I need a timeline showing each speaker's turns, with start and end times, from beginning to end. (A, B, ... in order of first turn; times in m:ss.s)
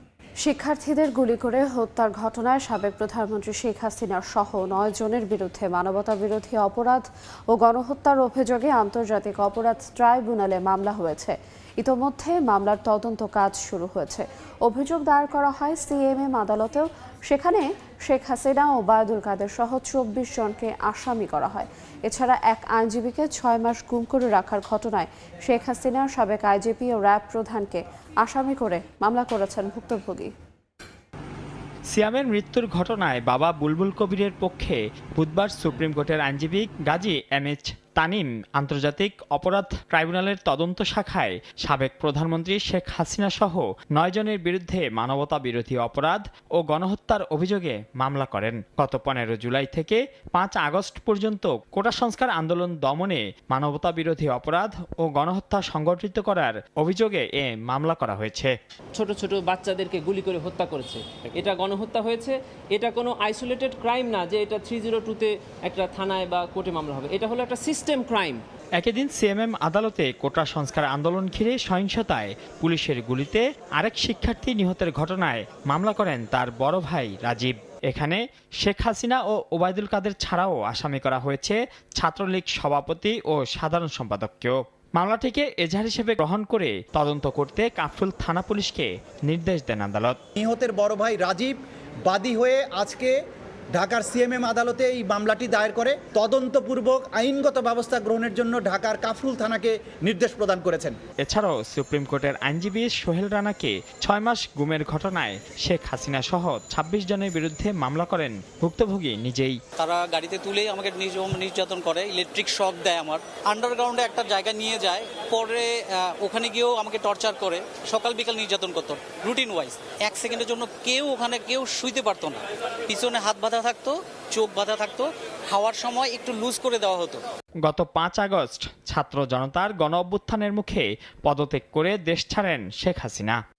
0:00.4-0:30.3 A
0:31.9-0:58.5 B
0:59.0-1:08.4 C
1:08.8-1:30.2 B
1:30.4-1:31.5 D
1:32.2-1:33.1 D
1:34.2-1:40.9 D
1:41.2-1:49.6 B
1:49.8-2:07.2 E
2:07.6-2:13.4 B